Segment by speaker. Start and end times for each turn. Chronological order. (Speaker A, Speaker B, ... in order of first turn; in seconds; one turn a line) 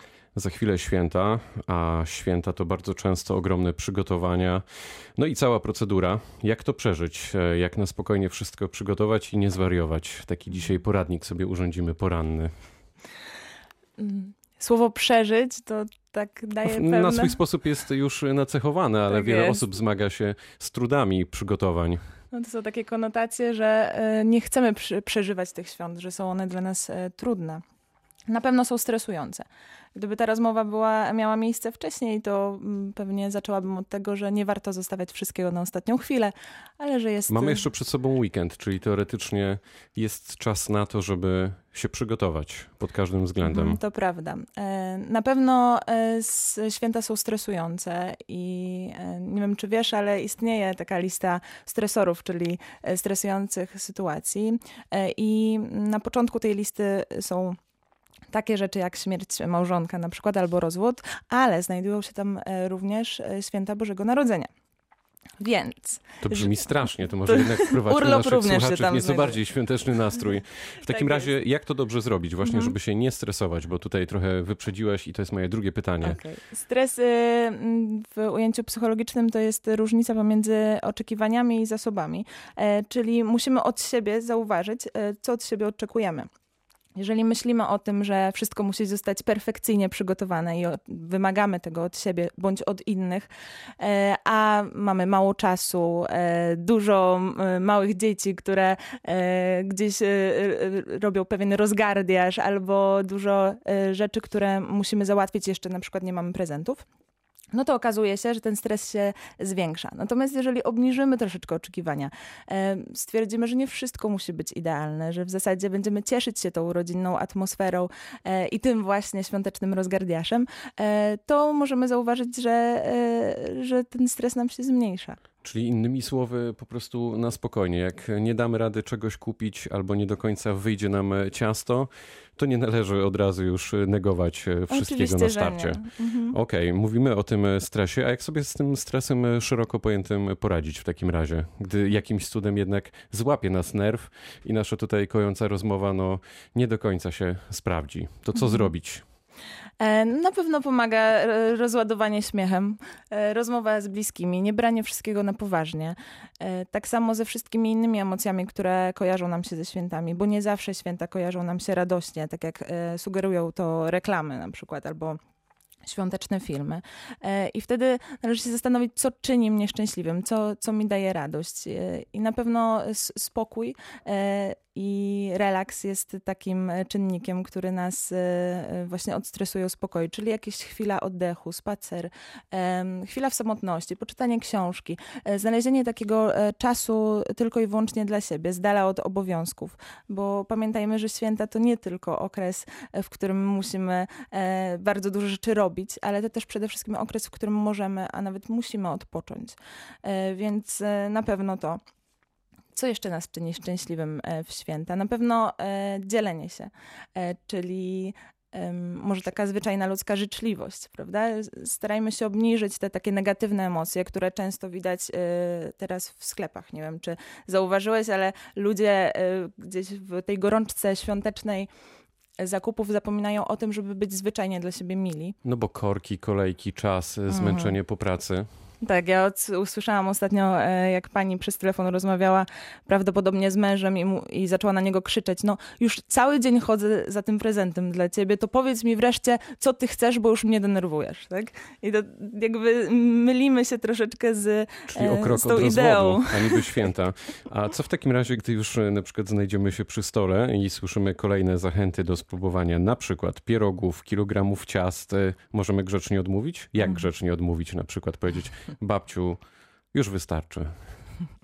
Speaker A: 0.3-4.6
Speaker A: 5.2-12.5
Speaker B: 14.0-17.4
Speaker A: 16.7-22.0
Speaker B: 19.1-19.6
Speaker B: 22.3-27.6
Speaker B: 28.3-37.6
Speaker A: 37.3-43.8
Speaker B: 43.5-57.6
Speaker B: 58.3-64.5
Speaker B: 65.4-66.6
Speaker A: 66.2-76.2
Speaker B: 67.2-69.4
Speaker B: 70.9-71.3
Speaker B: 72.4-72.7
Speaker B: 76.0-86.3
Speaker B: 87.0-93.3
Speaker B: 93.8-106.8
Speaker B: 107.5-125.2
Speaker A: 125.4-149.0
Speaker B: 134.7-136.4
Speaker B: 149.8-165.2
Speaker B: 165.8-201.8
Speaker B: 202.7-221.7
Speaker B: 222.4-225.4
Speaker A: 225.4-228.5
Speaker B: 227.3-227.8
Speaker B: 228.8-246.8
Speaker A: 244.9-259.4
Speaker A: 259.9-260.7